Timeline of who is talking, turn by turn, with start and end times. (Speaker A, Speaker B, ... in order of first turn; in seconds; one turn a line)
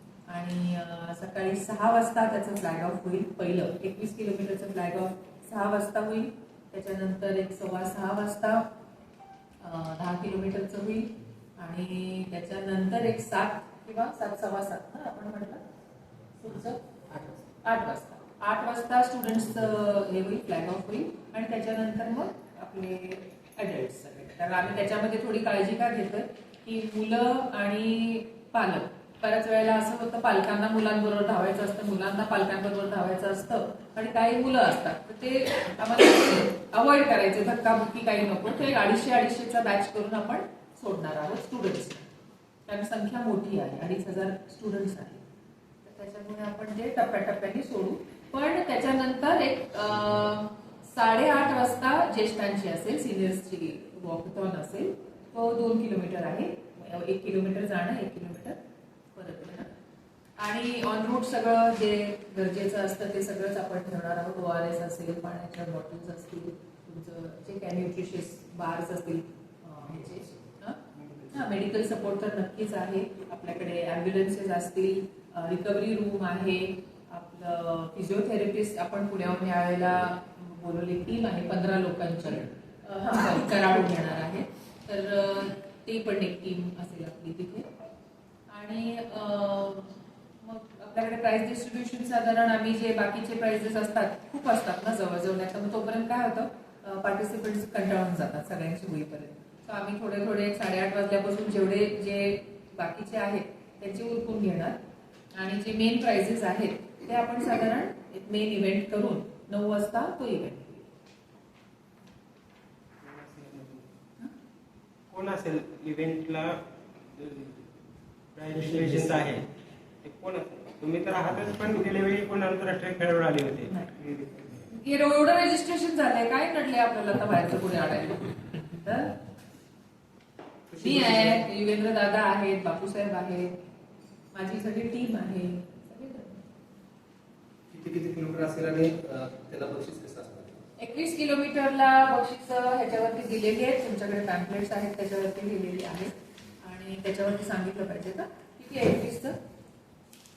Speaker A: 0.3-8.7
Speaker A: 9.6-15.6
Speaker A: 16.4-42.1
Speaker A: 42.7-45.2
Speaker A: 45.8-58.6
Speaker A: 59.1-59.7
Speaker A: 60.4-87.7
Speaker A: 88.5-104.8
Speaker A: 105.3-110.9
Speaker B: 113.0-113.9
Speaker B: 115.1-117.7
Speaker B: 118.3-119.5
Speaker B: 120.0-124.7
Speaker A: 124.7-129.2
Speaker C: 130.7-131.4
Speaker A: 130.8-133.6
Speaker A: 134.3-136.4
Speaker C: 137.7-140.6
Speaker A: 140.8-149.4